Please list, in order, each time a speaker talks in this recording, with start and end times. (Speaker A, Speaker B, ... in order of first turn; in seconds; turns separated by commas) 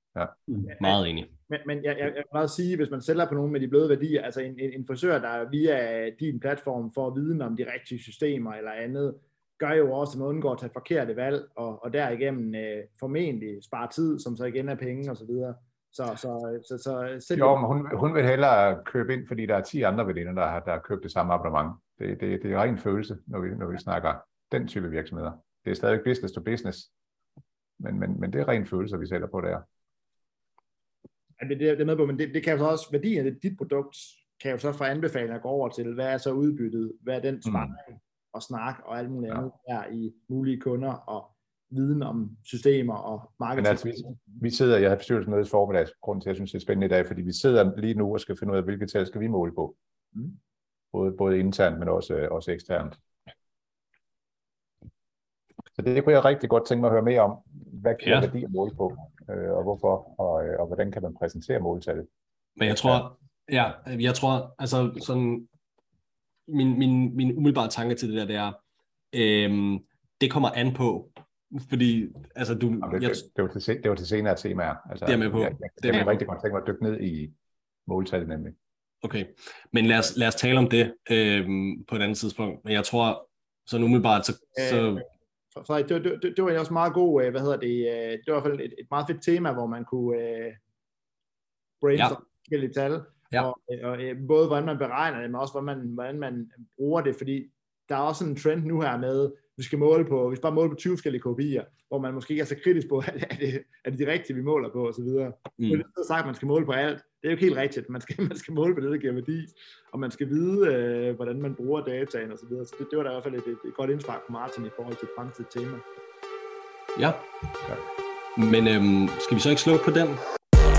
Speaker A: 0.7-17.6, Speaker B: 0.8-1.3, Speaker C: 17.4-26.9, Speaker C: 27.8-29.6, Speaker A: 31.4-44.4, Speaker C: 37.5-37.7, Speaker C: 43.6-49.8, Speaker C: 50.9-53.0, Speaker C: 55.8-62.1, Speaker B: 58.0-58.3, Speaker B: 62.6-65.5, Speaker C: 62.6-63.1, Speaker B: 66.5-68.6, Speaker B: 69.1-73.2, Speaker C: 72.8-77.3, Speaker B: 75.1-76.2, Speaker C: 77.9-78.5, Speaker B: 79.0-85.0, Speaker A: 84.6-90.6, Speaker A: 91.8-115.8, Speaker B: 117.0-117.3, Speaker B: 118.4-120.2